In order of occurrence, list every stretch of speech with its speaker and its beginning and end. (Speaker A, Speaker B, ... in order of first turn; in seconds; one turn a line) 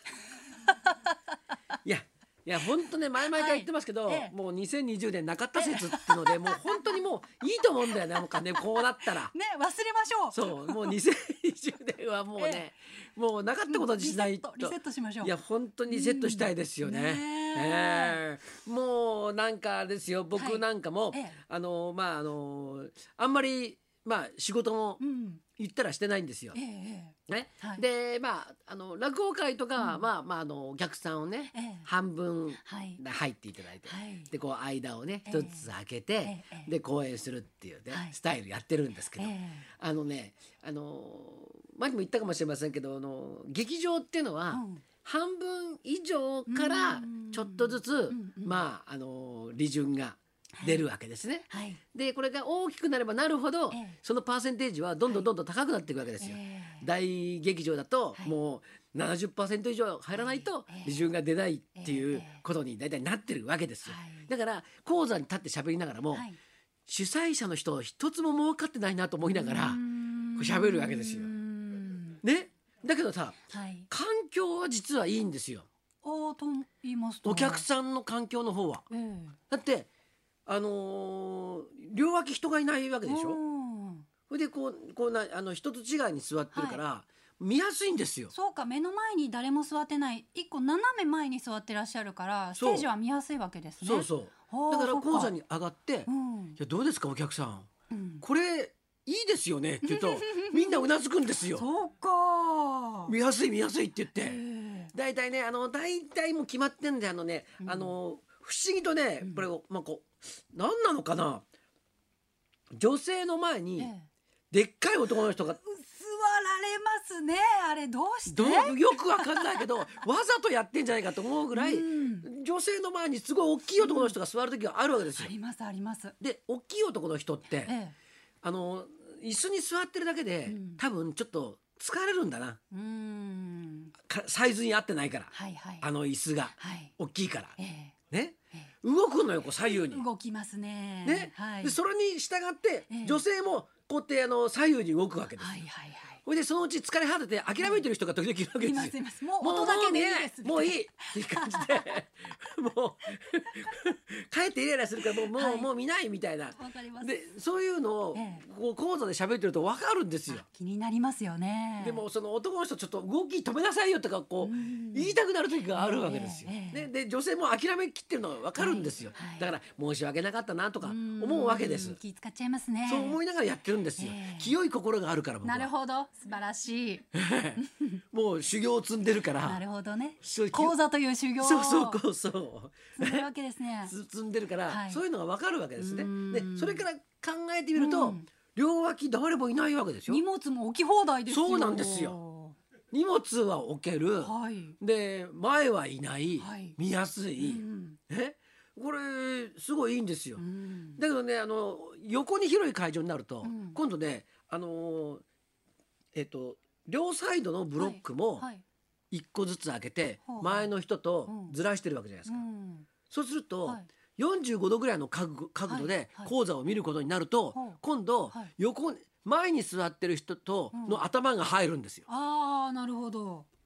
Speaker A: 0.6-1.1
Speaker B: 1.8-9.3
Speaker A: 3.3-4.3
Speaker A: 5.5-7.0
Speaker A: 8.1-11.0
Speaker B: 10.3-25.0
Speaker A: 12.4-12.7
Speaker A: 13.7-15.3
Speaker A: 15.9-18.2
Speaker A: 20.3-21.4
Speaker A: 25.0-25.4
Speaker B: 25.6-26.6
Speaker A: 26.5-27.8
Speaker B: 27.3-66.3
Speaker A: 29.8-30.0
Speaker A: 31.5-31.9
Speaker A: 32.6-33.0
Speaker A: 33.9-34.3
Speaker A: 35.2-35.7
Speaker A: 36.2-36.7
Speaker A: 39.2-39.7
Speaker A: 44.5-44.8
Speaker A: 46.5-48.6
Speaker A: 50.6-50.8
Speaker A: 51.5-51.8
Speaker A: 53.7-54.0
Speaker A: 56.2-56.9
Speaker A: 60.1-61.0
Speaker A: 61.8-62.4
Speaker A: 63.9-64.3
Speaker B: 66.9-69.8
Speaker A: 69.2-72.2
Speaker B: 70.3-71.3
Speaker B: 72.2-75.7
Speaker A: 73.5-73.9
Speaker A: 76.0-77.6
Speaker B: 77.2-78.8
Speaker A: 78.9-79.4
Speaker B: 79.5-79.9
Speaker B: 80.5-83.4
Speaker A: 83.0-84.1
Speaker B: 84.3-88.3
Speaker A: 86.5-86.8
Speaker A: 88.3-95.3
Speaker B: 92.6-92.9
Speaker B: 93.8-97.7
Speaker A: 96.1-96.6
Speaker A: 97.9-98.2
Speaker B: 98.2-101.7
Speaker A: 99.8-100.8
Speaker A: 101.5-103.1
Speaker B: 103.1-104.4
Speaker A: 104.2-104.9
Speaker B: 104.9-111.4
Speaker A: 107.6-107.9
Speaker B: 112.7-113.9
Speaker A: 113.8-114.1
Speaker B: 114.5-115.6
Speaker A: 115.6-119.9
Speaker B: 118.3-125.3
Speaker A: 121.5-122.3
Speaker A: 123.8-124.1
Speaker A: 125.1-126.1
Speaker B: 126.2-127.7
Speaker A: 127.6-127.9
Speaker B: 128.4-132.6
Speaker A: 130.5-130.8
Speaker A: 132.7-133.9
Speaker B: 134.0-137.6
Speaker A: 135.3-135.8
Speaker A: 136.6-136.9
Speaker A: 137.6-137.9
Speaker B: 138.1-140.0
Speaker A: 139.6-141.8
Speaker B: 141.0-145.6
Speaker A: 142.9-143.2
Speaker A: 145.4-146.2
Speaker B: 146.2-160.4
Speaker A: 148.6-151.8
Speaker A: 155.2-155.7
Speaker A: 156.5-157.1
Speaker A: 158.1-158.4
Speaker A: 160.3-162.0
Speaker B: 161.8-172.0
Speaker A: 164.4-165.2
Speaker A: 165.7-166.9
Speaker A: 168.5-169.5
Speaker A: 170.8-173.2
Speaker B: 172.8-175.7
Speaker A: 174.0-174.5
Speaker A: 175.4-177.1
Speaker B: 177.1-177.6
Speaker A: 177.6-178.0
Speaker B: 178.1-179.6
Speaker A: 179.4-182.0
Speaker B: 180.2-180.8
Speaker B: 181.4-183.2
Speaker A: 183.0-183.9
Speaker B: 183.8-190.2
Speaker A: 184.7-185.0
Speaker A: 185.8-186.8
Speaker A: 187.7-188.3
Speaker A: 190.1-192.6
Speaker B: 191.3-192.2
Speaker B: 192.9-200.4
Speaker A: 194.2-194.8
Speaker A: 196.4-196.8
Speaker A: 197.4-198.0
Speaker A: 200.4-201.0
Speaker B: 201.0-205.2
Speaker A: 203.4-203.8
Speaker B: 206.1-208.5
Speaker A: 207.8-208.6
Speaker B: 209.1-212.4
Speaker A: 210.3-210.7
Speaker A: 211.3-211.6
Speaker A: 212.2-212.9
Speaker B: 213.1-222.1
Speaker A: 215.7-216.3
Speaker A: 217.5-217.8
Speaker A: 220.7-221.0
Speaker A: 222.1-223.5